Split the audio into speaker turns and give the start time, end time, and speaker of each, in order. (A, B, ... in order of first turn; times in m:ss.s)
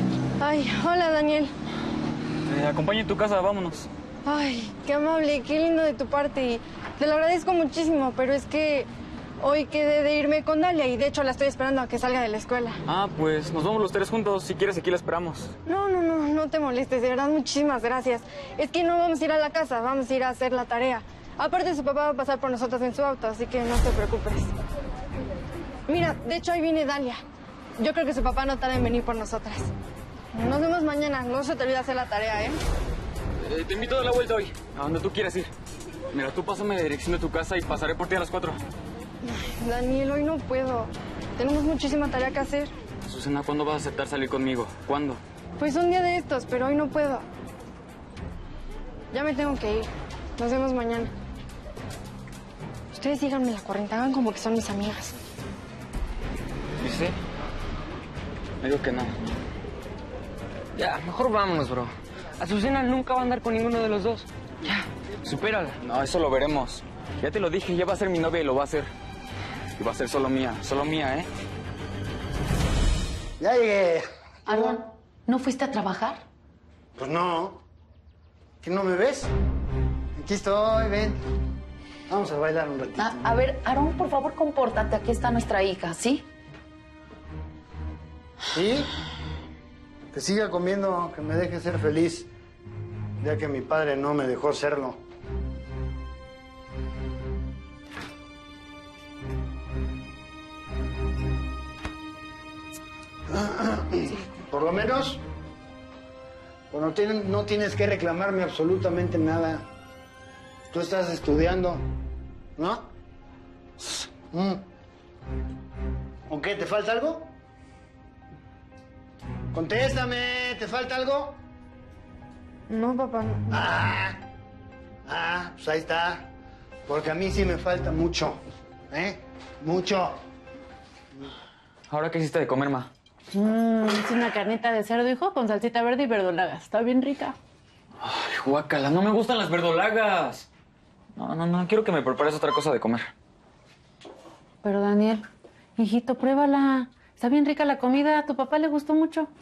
0:00.4-0:01.5 A
0:02.5-0:03.9 B
0:04.2-0:08.9 A
0:09.4-0:12.8 A
0:12.9-0:15.5 B
0:15.7-0:24.6 A
0:25.9-0:27.2 A
0:27.8-0:29.7 A
0:30.3-0:32.6 A
0:33.4-0:35.5 B
0:36.1-0:38.6 B
0:39.2-0:42.7 A
0:43.1-0:45.2 B
0:45.6-0:47.3 A
0:49.1-0:51.1 A
0:52.9-0:55.2 A
0:56.8-0:57.2 B
0:58.6-0:59.2 B
1:00.8-1:05.8 C
1:05.8-1:08.9 B
1:09.8-1:11.3 B
1:13.4-1:14.8 D
1:14.5-1:16.2 E
1:17.0-1:17.6 D
1:18.6-1:19.3 D
1:20.2-1:21.2 D
1:22.1-1:23.2 D
1:23.0-1:26.2 E
1:28.5-1:28.9 D
1:30.1-1:32.3 D
1:33.2-1:35.0 D
1:43.3-1:45.2 D
1:46.7-1:49.6 D
1:50.7-1:51.9 D
1:52.6-1:52.9 D
1:53.8-1:54.6 D
1:56.3-1:57.3 D
1:59.5-2:01.4 D
2:02.7-2:03.7 A
2:03.5-2:04.2 D
2:05.1-2:06.3 D
2:06.9-2:08.4 D
2:08.9-2:10.2 D
2:11.9-2:12.9 B
2:13.3-2:17.4 F
2:18.0-2:20.5 B
2:21.2-2:23.1 B
2:24.6-2:25.2 F
2:25.8-2:29.3 F